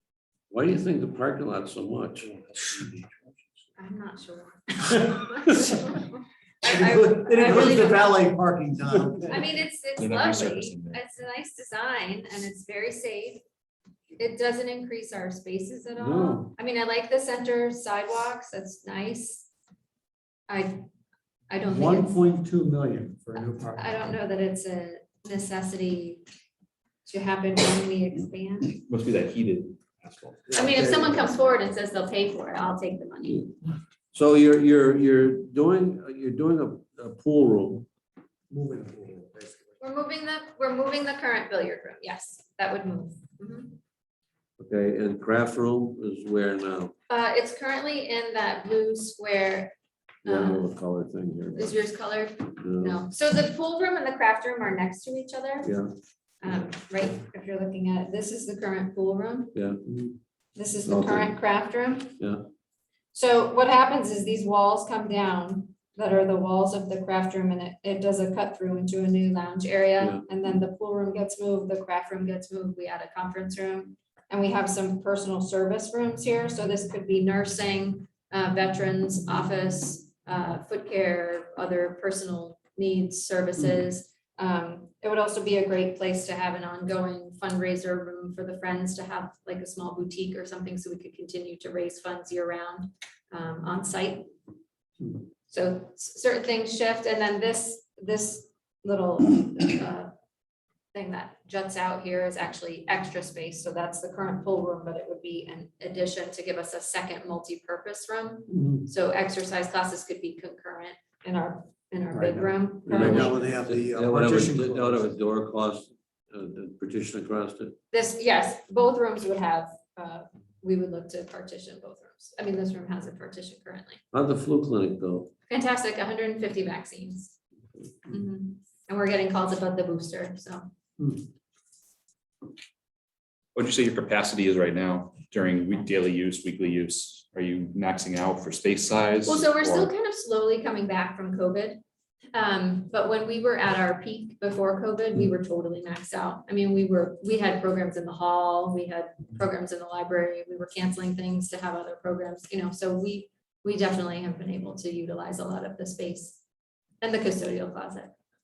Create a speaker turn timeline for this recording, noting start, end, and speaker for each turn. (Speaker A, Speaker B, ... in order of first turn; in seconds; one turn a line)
Speaker A: 0.5-3.0
Speaker B: 3.8-8.3
Speaker C: 6.6-9.4
Speaker B: 9.3-13.4
Speaker D: 10.0-11.0
Speaker B: 14.2-19.5
Speaker A: 16.0-16.5
Speaker B: 20.5-20.9
Speaker B: 21.5-22.2
Speaker C: 21.7-24.0
Speaker B: 23.4-26.3
Speaker B: 27.1-28.8
Speaker D: 28.8-31.0
Speaker C: 30.5-31.3
Speaker B: 30.5-33.5
Speaker A: 34.1-37.9
Speaker C: 38.5-39.8
Speaker B: 39.8-43.8
Speaker A: 44.6-46.9
Speaker B: 47.1-49.7
Speaker B: 50.2-50.7
Speaker A: 50.3-51.7
Speaker B: 51.5-55.8
Speaker A: 52.6-53.0
Speaker A: 55.6-55.9
Speaker B: 56.4-59.6
Speaker A: 59.5-59.9
Speaker B: 60.6-62.2
Speaker A: 60.9-61.3
Speaker A: 62.2-62.5
Speaker B: 63.1-94.3
Speaker B: 95.5-100.1
Speaker B: 100.9-113.5
Speaker C: 108.5-108.9
Speaker C: 112.1-115.1
Speaker A: 112.9-117.8
Speaker B: 117.9-124.0
Speaker A: 124.1-125.3
Speaker B: 125.5-127.3
Speaker B: 128.1-130.7
Speaker D: 133.6-139.9
Speaker B: 139.2-141.8
Speaker B: 142.3-156.4
Speaker B: 157.0-158.1